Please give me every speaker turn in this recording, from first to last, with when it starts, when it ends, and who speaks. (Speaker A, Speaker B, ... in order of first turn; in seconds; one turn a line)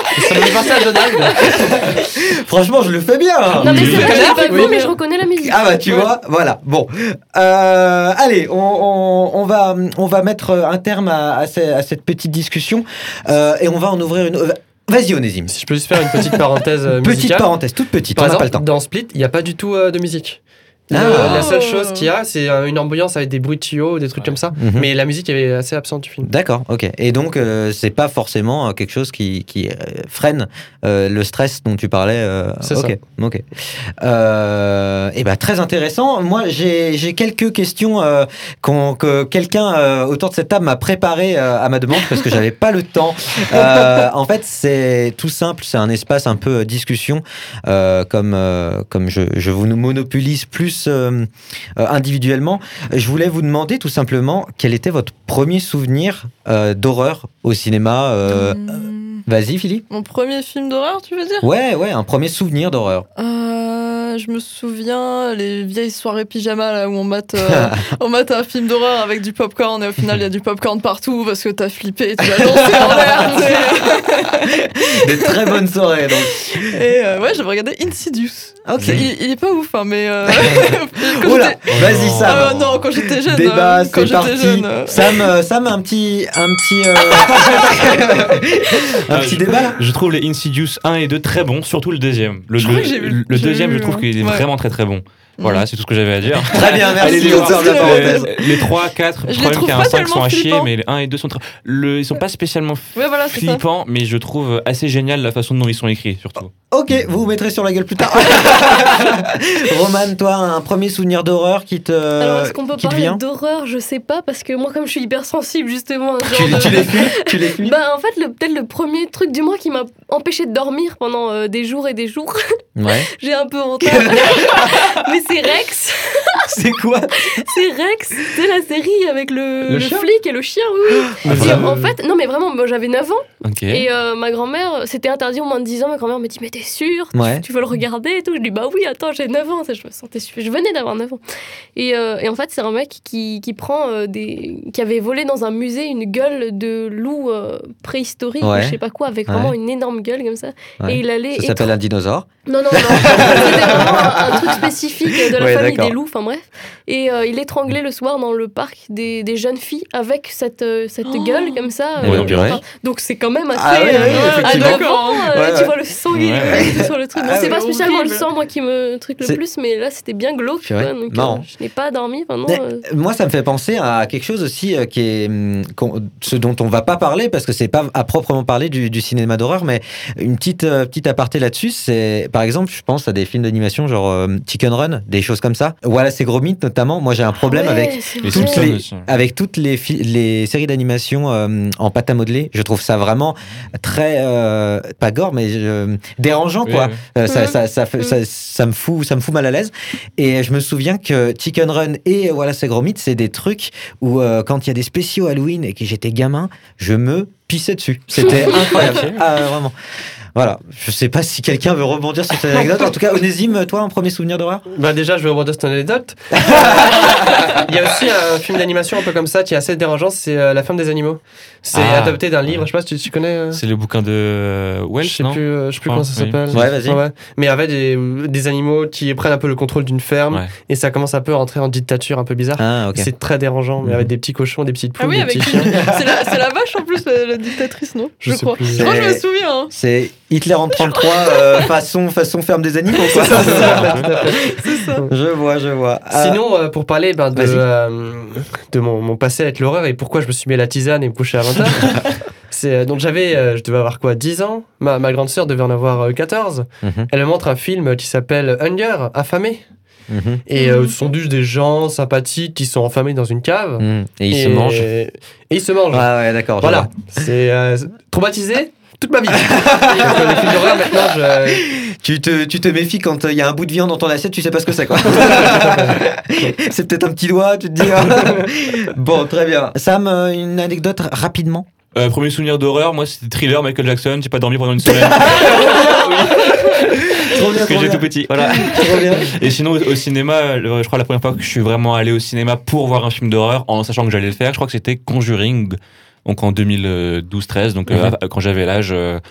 Speaker A: 0.1-1.9
Speaker B: 0.3-4.7
Speaker C: 3.6-5.8
Speaker D: 3.6-4.2
Speaker A: 3.8-4.9
Speaker E: 3.8-4.9
Speaker B: 5.4-16.4
Speaker A: 15.5-17.5
Speaker B: 16.9-18.7
Speaker A: 18.1-26.3
Speaker B: 20.9-21.5
Speaker E: 21.0-22.1
Speaker B: 24.6-24.9
Speaker B: 26.2-59.8
Speaker A: 32.6-33.0
Speaker E: 58.3-59.2
Speaker E: 59.9-61.5
Speaker B: 61.4-63.1
Speaker E: 63.2-75.5
Speaker B: 67.4-67.7
Speaker B: 72.4-73.6
Speaker B: 74.8-76.7
Speaker E: 76.4-85.3
Speaker B: 78.7-79.1
Speaker B: 80.3-89.8
Speaker D: 81.7-82.6
Speaker D: 89.1-106.5
Speaker E: 92.6-94.5
Speaker E: 95.4-95.7
Speaker E: 96.5-98.7
Speaker B: 96.5-98.3
Speaker E: 99.3-100.7
Speaker E: 103.0-103.6
Speaker B: 106.7-113.2
Speaker C: 112.2-126.5
Speaker B: 116.2-117.8
Speaker B: 122.8-123.1
Speaker B: 123.8-125.1
Speaker B: 126.4-127.5
Speaker C: 127.2-141.2
Speaker B: 129.7-130.1
Speaker B: 130.9-131.8
Speaker A: 131.3-131.7
Speaker D: 131.3-131.7
Speaker D: 133.4-133.9
Speaker B: 137.1-137.4
Speaker C: 141.8-151.7
Speaker B: 148.4-149.6
Speaker B: 150.8-154.6
Speaker C: 152.5-172.8
Speaker B: 155.2-155.9
Speaker E: 161.1-161.7
Speaker D: 162.0-162.6
Speaker B: 162.0-162.6
Speaker B: 163.5-165.7
Speaker E: 164.1-165.3
Speaker D: 166.1-166.6
Speaker B: 166.6-167.6
Speaker E: 167.2-168.3
Speaker B: 170.7-171.4
Speaker B: 172.5-209.7
Speaker C: 187.4-188.7
Speaker D: 188.2-189.1
Speaker D: 196.7-197.0
Speaker C: 197.3-198.1
Speaker B: 210.4-214.7
Speaker A: 214.7-223.6
Speaker B: 216.4-217.3
Speaker D: 221.7-222.7
Speaker D: 223.5-226.7
Speaker A: 225.0-235.8
Speaker B: 226.5-227.0
Speaker B: 232.6-233.1
Speaker E: 235.0-239.7
Speaker B: 235.7-236.2
Speaker A: 238.2-238.9
Speaker B: 238.7-244.4
Speaker E: 240.7-241.7
Speaker A: 243.1-245.1
Speaker D: 243.7-244.1
Speaker E: 244.3-245.1
Speaker B: 245.1-246.4
Speaker A: 246.1-259.6
Speaker B: 247.3-247.7
Speaker B: 256.8-257.1
Speaker B: 260.1-260.4
Speaker A: 260.5-271.7
Speaker E: 260.6-260.9
Speaker B: 263.8-264.9
Speaker B: 265.9-267.1
Speaker B: 269.4-281.7
Speaker A: 275.2-276.6
Speaker A: 278.1-278.5
Speaker D: 281.9-299.2
Speaker B: 284.8-289.4